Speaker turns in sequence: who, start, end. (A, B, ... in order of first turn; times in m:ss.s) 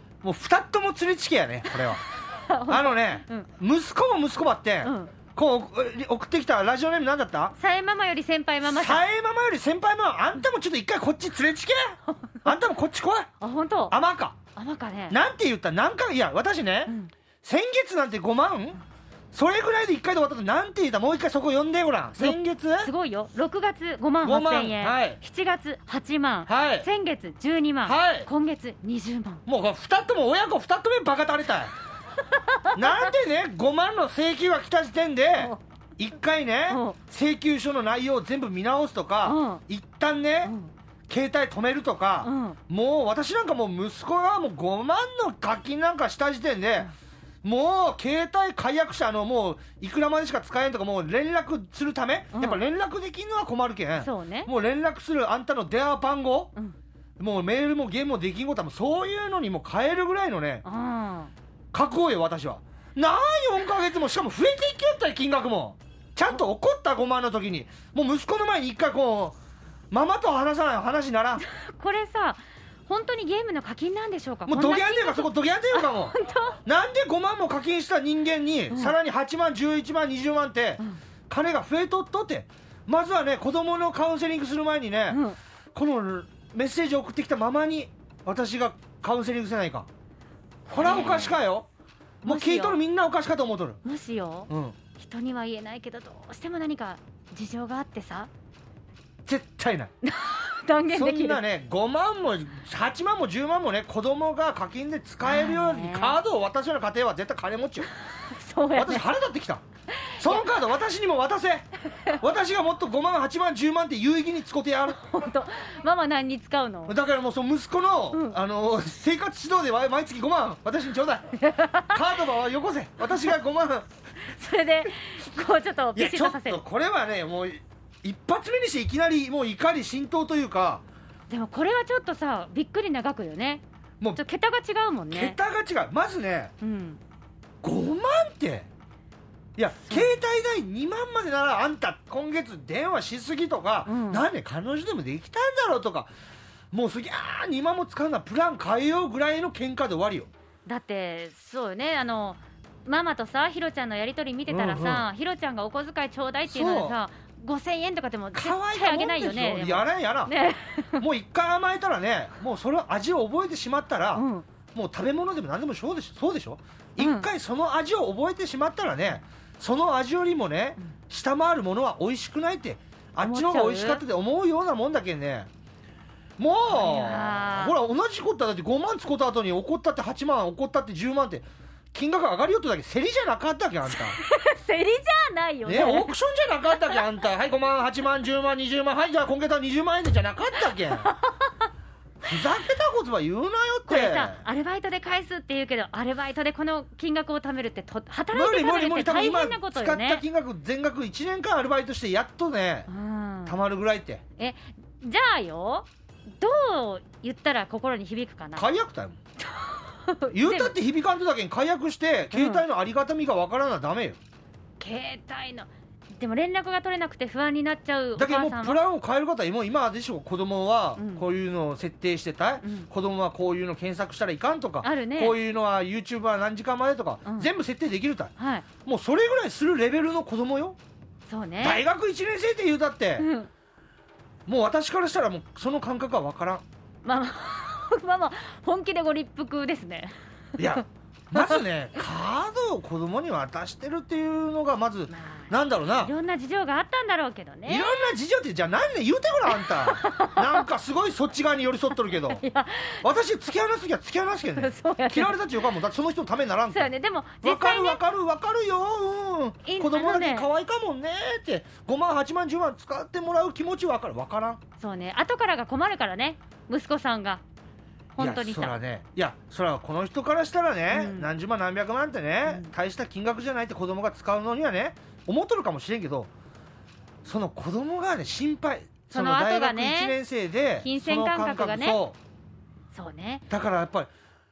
0:00.2-0:02.0 A
0:01.7-0:03.5 B
0:02.7-0:07.5 A
0:04.8-0:05.1 B
0:07.5-0:09.0 B
0:08.6-0:13.3 A
0:12.2-0:12.6 B
0:13.4-0:14.0 B
0:13.9-0:14.4 A
0:14.6-0:15.2 B
0:15.1-0:18.8 A
0:16.8-0:17.1 B
0:19.3-0:22.9 A
0:22.2-0:29.4 B
0:24.2-0:25.2 A
0:26.5-0:26.9 A
0:27.8-0:28.3 A
0:29.4-0:31.7 A
0:32.2-0:33.1 B
0:32.7-0:40.5 A
0:36.7-0:37.0 B
0:39.2-0:39.6 B
0:40.4-0:40.7 B
0:41.1-0:46.9 A
0:42.2-0:42.6 B
0:47.4-0:56.5 A
0:52.3-0:52.6 B
0:54.0-0:54.5 B
0:57.2-1:00.6 A
1:00.6-1:01.3 B
1:01.7-1:09.4 A
1:09.9-1:11.4 A
1:11.4-1:16.6 B
1:14.5-1:25.2 A
1:18.7-1:19.0 B
1:25.1-1:25.4 B
1:25.7-1:29.9 A
1:30.6-1:31.4 B
1:30.7-1:31.7 A
1:32.2-1:33.8 A
1:32.2-1:32.8 B
1:33.8-1:38.3 B
1:34.5-1:34.8 A
1:39.2-1:39.9 A
1:40.0-1:41.4 B
1:40.9-1:47.9 A
1:45.2-1:46.2 B
1:47.8-1:49.1 B
1:48.7-1:49.6 A
1:49.9-1:50.6 B
1:50.2-1:55.0 A
1:54.9-1:56.9 B
1:56.9-2:03.9 A
1:58.1-1:58.4 B
2:01.4-2:02.2 B
2:03.0-2:03.3 B
2:04.2-2:06.6 B
2:05.9-2:10.8 A
2:11.3-2:13.6 B
2:14.2-2:15.4 B
2:15.1-2:16.5 A
2:16.6-2:17.0 B
2:17.6-2:18.7 A
2:19.6-2:26.1 A
2:19.8-2:20.1 B
2:23.8-2:24.3 B
2:26.7-2:30.3 A
2:30.6-2:41.0 B
2:34.5-2:35.1 A
2:36.5-2:37.0 A
2:38.3-2:40.3 A
2:41.0-2:55.5 A
2:44.1-2:44.5 B
2:47.0-2:47.3 B
2:53.2-2:54.0 B
2:56.4-3:04.2 A
2:56.6-2:57.8 B
3:03.9-3:06.1 B
3:05.6-3:11.1 A
3:06.7-3:07.0 B
3:10.9-3:11.5 B
3:12.2-3:14.4 A
3:13.9-3:20.2 B
3:18.3-3:22.9 A
3:22.9-3:23.6 B
3:23.4-3:24.2 A
3:24.4-3:28.7 B
3:28.6-3:29.2 A
3:29.4-3:30.8 B
3:30.3-3:34.2 A
3:32.3-3:32.6 B
3:34.8-3:38.8 B
3:38.2-3:48.3 A
3:41.0-3:41.2 B
3:42.6-3:42.9 B
3:44.8-3:45.4 B
3:47.2-3:47.5 B
3:48.4-3:48.7 B
3:48.8-3:50.8 A
3:51.3-3:51.8 B
3:51.6-3:53.3 A
3:53.2-3:53.5 B
3:54.5-3:56.6 A
3:57.0-4:00.8 B
4:00.6-4:06.1 A
4:01.3-4:01.6 B
4:05.1-4:08.1 B
4:07.6-4:12.4 A
4:09.5-4:10.6 B
4:12.1-4:13.1 B
4:13.0-4:16.9 A
4:14.5-4:15.5 B
4:16.7-4:18.0 B
4:17.4-4:24.6 A
4:19.6-4:20.5 B
4:24.8-4:27.4 B
4:28.2-4:28.8 B
4:28.2-4:36.3 A
4:30.9-4:31.3 B
4:32.4-4:32.7 B
4:37.2-4:42.2 A
4:39.1-4:40.2 B
4:40.8-4:42.0 B
4:42.9-4:43.4 B
4:43.5-4:44.1 A